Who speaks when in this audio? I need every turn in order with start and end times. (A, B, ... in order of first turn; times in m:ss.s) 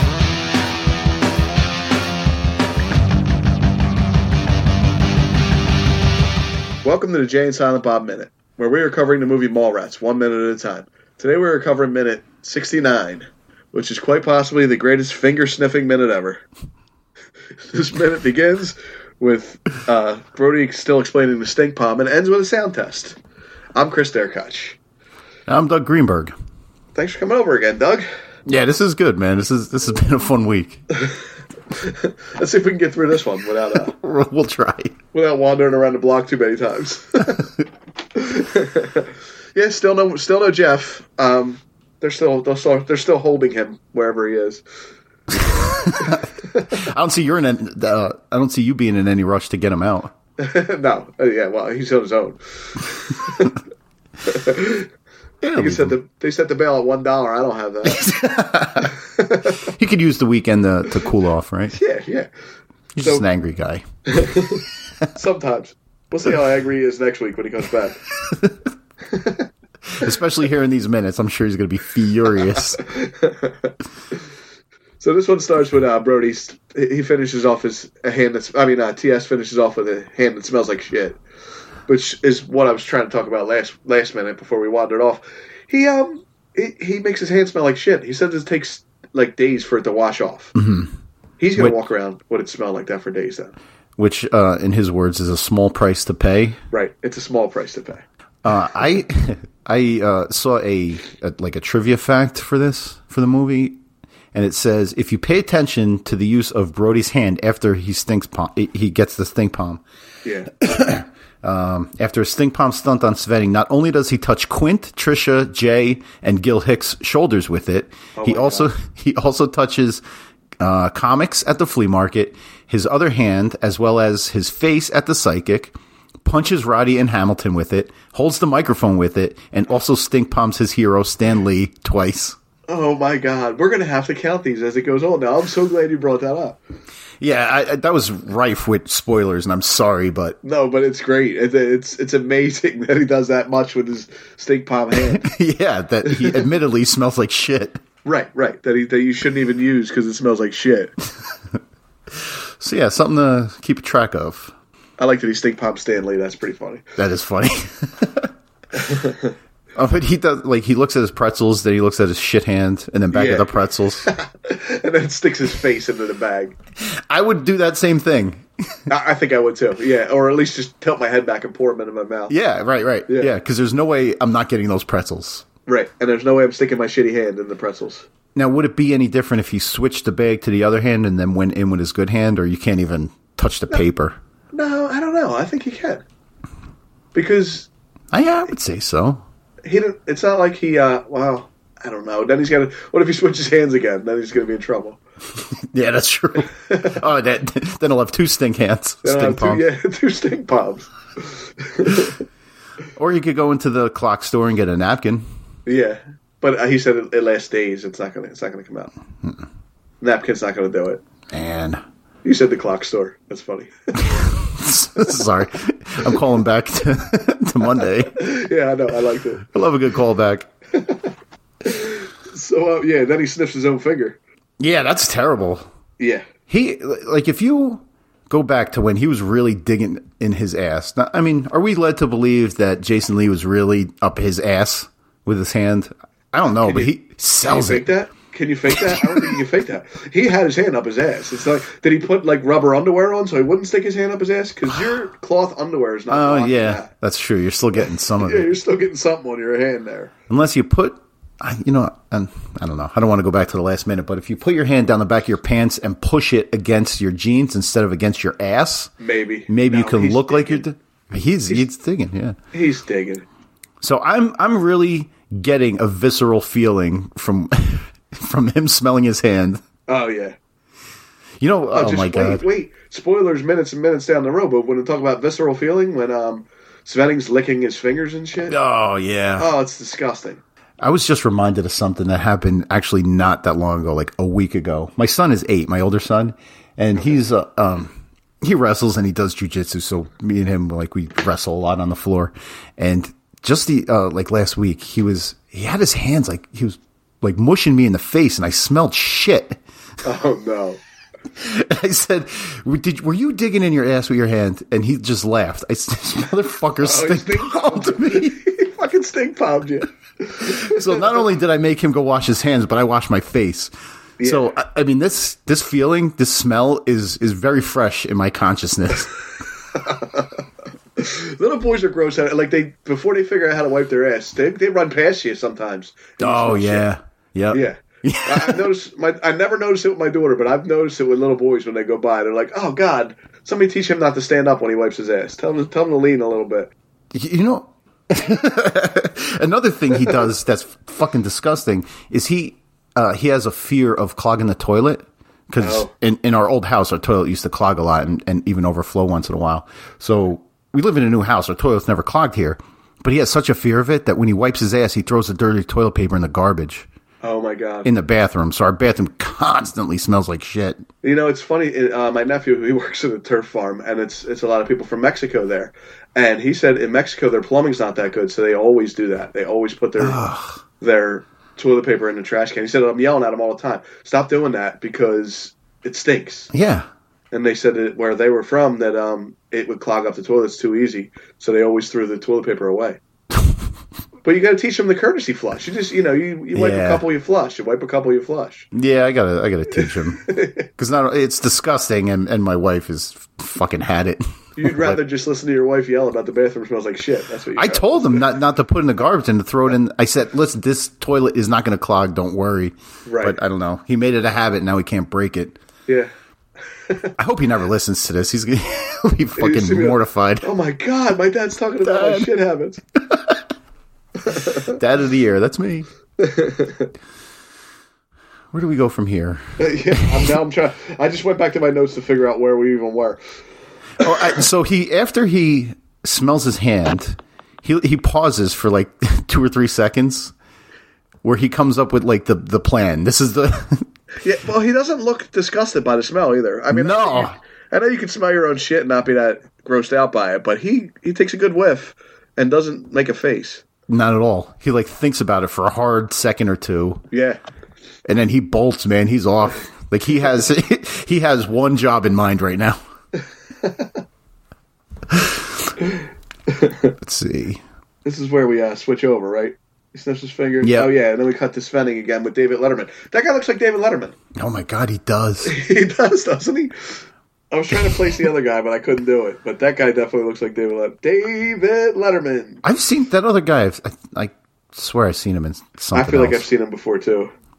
0:06.8-0:16.4 A
0:17.7-0:23.2 A
0:23.8-0:24.8 A
0:25.5-0:26.4 B
0:27.0-0:28.1 A
0:28.5-0:30.8 B
0:31.7-0:34.0 A
0:33.8-0:35.0 B
0:35.1-0:37.5 A
0:38.1-0:44.6 A
0:45.3-0:50.1 B
0:46.0-0:46.6 A
0:50.4-0:53.6 A
0:54.2-0:54.9 A
0:55.4-0:56.0 B
0:55.6-0:58.1 A
0:57.8-0:59.0 B
0:59.0-0:59.6 A
0:59.6-1:01.8 B
1:01.7-1:02.3 A
1:03.0-1:03.8 B
1:04.1-1:08.0 A
1:09.1-1:09.5 A
1:09.9-1:12.8 B
1:12.8-1:13.7 A
1:15.0-1:21.2 A
1:21.9-1:30.5 A
1:30.6-1:30.9 B
1:31.4-1:33.5 A
1:34.0-1:36.6 B
1:36.7-1:38.0 A
1:38.4-1:43.8 B
1:44.3-1:49.8 B
1:50.2-1:50.6 A
1:50.6-2:00.0 B
1:58.2-1:58.7 A
2:00.6-2:12.4 B
2:12.7-2:16.6 A
2:17.2-2:20.4 B
2:20.4-2:25.2 A
2:25.0-2:27.8 B
2:26.1-2:26.5 A
2:28.0-2:30.9 A
2:32.1-2:34.5 B
2:35.0-2:36.8 A
2:37.0-2:38.3 B
2:38.8-2:39.4 A
2:39.8-2:44.1 B
2:43.1-2:46.6 A
2:46.8-2:48.5 B
2:48.9-2:52.3 A
2:52.3-2:55.4 B
2:55.7-2:58.1 A
2:58.4-3:04.2 B
3:04.5-3:06.0 A
3:07.1-3:07.7 A
3:08.1-3:09.2 B
3:09.6-3:15.0 A
3:15.7-3:19.6 B
3:16.7-3:17.0 A
3:19.0-3:22.2 A
3:23.0-3:25.2 B
3:25.7-3:28.9 A
3:30.0-3:31.0 A
3:31.3-3:31.8 B
3:32.2-3:33.7 A
3:33.9-3:38.2 B
3:38.1-3:39.5 A
3:39.4-3:40.5 B
3:40.7-3:41.1 A
3:41.6-3:44.2 A
3:44.6-3:45.7 B
3:46.0-3:46.3 A
3:46.5-3:57.9 B
3:56.6-3:56.9 A
3:57.4-4:06.9 A
3:58.7-3:59.4 B
4:06.1-4:08.5 B
4:07.8-4:10.1 A
4:10.3-4:18.9 B
4:19.0-4:20.6 A
4:19.5-4:22.4 B
4:22.5-4:23.2 A
4:23.8-4:29.6 B
4:29.9-4:30.4 A
4:31.4-4:32.4 B
4:31.7-4:38.6 A
4:38.5-4:39.5 B
4:39.4-4:40.4 A
4:40.8-4:59.6 B
5:00.0-5:00.8 A
5:01.4-5:08.4 B
5:06.8-5:11.2 A
5:10.4-5:13.7 B
5:14.2-5:14.5 A
5:14.2-5:19.1 B
5:19.7-5:20.4 A
5:21.0-5:26.9 A
5:26.2-5:28.6 B
5:27.5-5:36.7 A
5:37.1-5:56.9 B
5:45.6-5:45.9 A
5:57.2-5:57.9 A
5:57.8-6:00.8 B
6:01.0-6:10.2 A
6:10.0-6:10.6 B
6:10.8-6:16.5 A
6:16.5-6:16.9 B
6:17.3-6:23.0 A
6:24.2-6:28.7 A
6:26.5-6:27.0 B
6:28.7-6:35.0 B
6:29.7-6:30.7 A
6:34.6-6:38.3 A
6:37.6-6:45.6 B
6:43.0-6:43.4 A
6:46.9-6:47.1 A
6:47.2-6:50.5 B
6:49.4-6:52.8 A
6:51.8-6:52.3 B
6:53.0-6:53.4 B
6:54.2-6:54.8 A
6:54.7-6:55.9 B
6:56.2-6:56.9 A
6:58.5-7:00.3 B
6:59.6-7:03.2 A
7:04.0-7:10.3 B
7:04.0-7:04.4 A
7:11.2-7:13.9 B
7:14.2-7:23.6 A
7:16.7-7:17.4 B
7:23.9-7:27.0 B
7:27.1-7:27.4 A
7:28.1-7:32.8 B
7:33.6-7:34.0 A
7:35.1-7:35.4 B
7:35.8-7:37.0 A
7:37.0-7:37.6 B
7:38.0-7:44.2 A
7:40.6-7:40.9 B
7:44.4-7:45.6 B
7:45.4-7:52.6 A
7:47.7-7:48.1 B
7:52.6-7:56.5 B
7:55.9-7:57.3 A